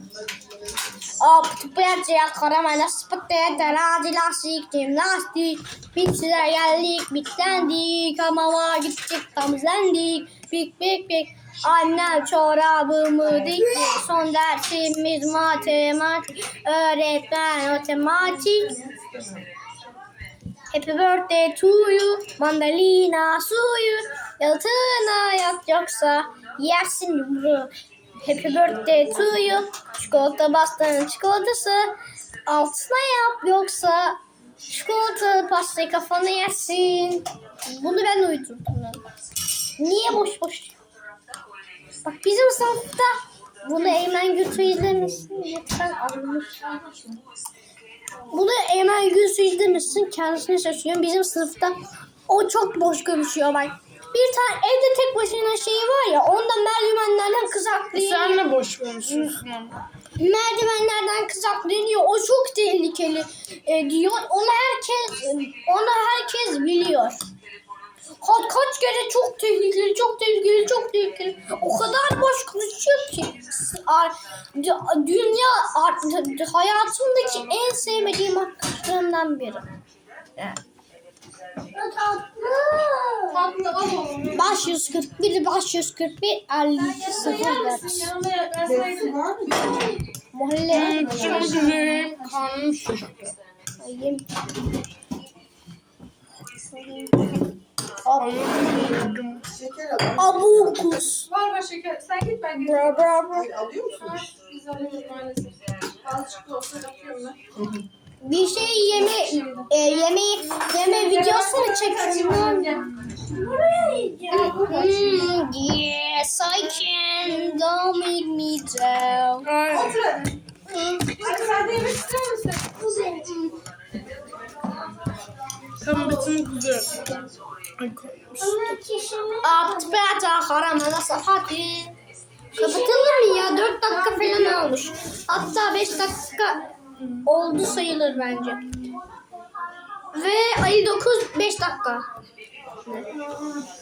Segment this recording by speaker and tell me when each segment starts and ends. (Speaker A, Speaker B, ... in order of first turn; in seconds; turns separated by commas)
Speaker A: 1.2-18.9, Speaker B: 18.5-19.4, Speaker A: 20.7-39.0, Speaker A: 39.8-40.8, Speaker A: 42.0-46.8, Speaker B: 46.6-47.2, Speaker A: 48.3-58.5, Speaker C: 57.9-59.8, Speaker A: 59.0-59.4, Speaker A: 60.2-67.2, Speaker A: 68.2-79.6, Speaker A: 81.7-83.5, Speaker B: 83.3-84.8, Speaker A: 84.3-88.1, Speaker B: 86.9-90.0, Speaker A: 90.3-91.7, Speaker C: 90.7-93.3, Speaker B: 91.0-92.4, Speaker A: 93.8-94.2, Speaker A: 96.7-97.3, Speaker A: 98.0-98.7, Speaker C: 98.1-99.5, Speaker A: 100.1-101.3, Speaker B: 101.2-107.4, Speaker A: 102.8-103.5, Speaker A: 108.2-113.3, Speaker B: 108.6-109.8, Speaker B: 110.5-115.3, Speaker C: 112.9-113.2, Speaker A: 113.9-119.5, Speaker C: 119.4-120.0, Speaker B: 119.7-120.3, Speaker A: 120.7-121.9, Speaker B: 121.1-122.9, Speaker A: 122.7-123.6, Speaker C: 125.8-127.1, Speaker B: 125.9-126.3, Speaker C: 127.8-128.7, Speaker A: 128.4-131.9, Speaker B: 128.6-129.4, Speaker A: 132.5-136.7, Speaker B: 132.6-134.5, Speaker C: 137.0-137.2, Speaker A: 137.2-138.6, Speaker A: 140.1-142.1